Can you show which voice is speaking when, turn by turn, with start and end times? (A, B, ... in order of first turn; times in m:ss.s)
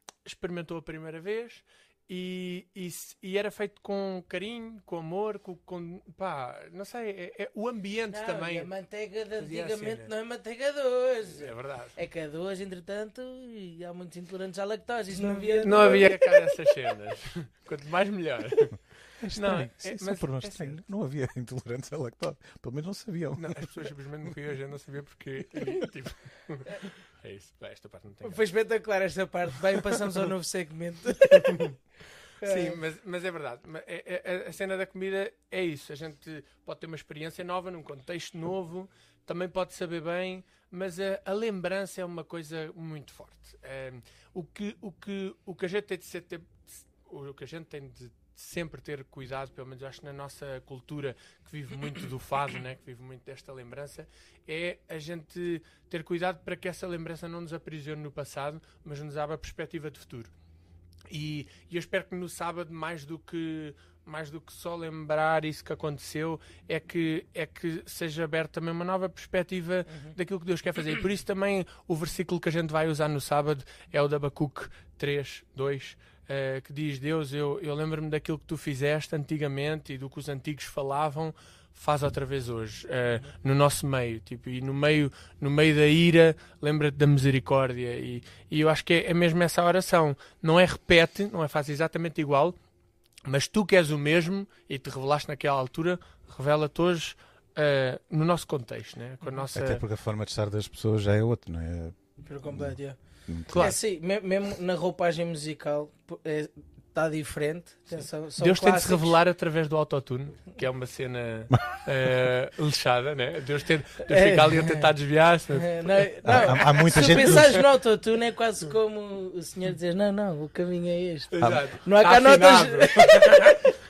0:00.3-0:08.7 A
0:08.1-0:16.5 B
0:09.4-0:10.1 A
0:11.4-0:12.0 A
0:15.2-0:18.8 A
0:19.2-0:23.7 C
0:19.3-0:20.8 A
0:23.4-0:28.4 A
0:28.2-0:31.7 B
0:31.3-0:31.8 A
0:32.4-0:32.8 B
0:32.4-1:00.3 A
1:01.1-1:32.6 A
1:09.9-1:10.2 B
1:33.3-1:39.8 A
1:39.6-1:42.0 C
1:42.2-1:43.0 B
1:42.5-1:42.8 C
1:43.3-1:43.8 C
1:43.5-1:43.8 A
1:43.6-1:49.2 B
1:48.4-1:57.6 A
1:51.5-1:51.8 C
1:54.1-1:54.9 B
1:55.5-2:03.6 B
1:56.2-1:57.6 C
2:01.3-2:03.7 A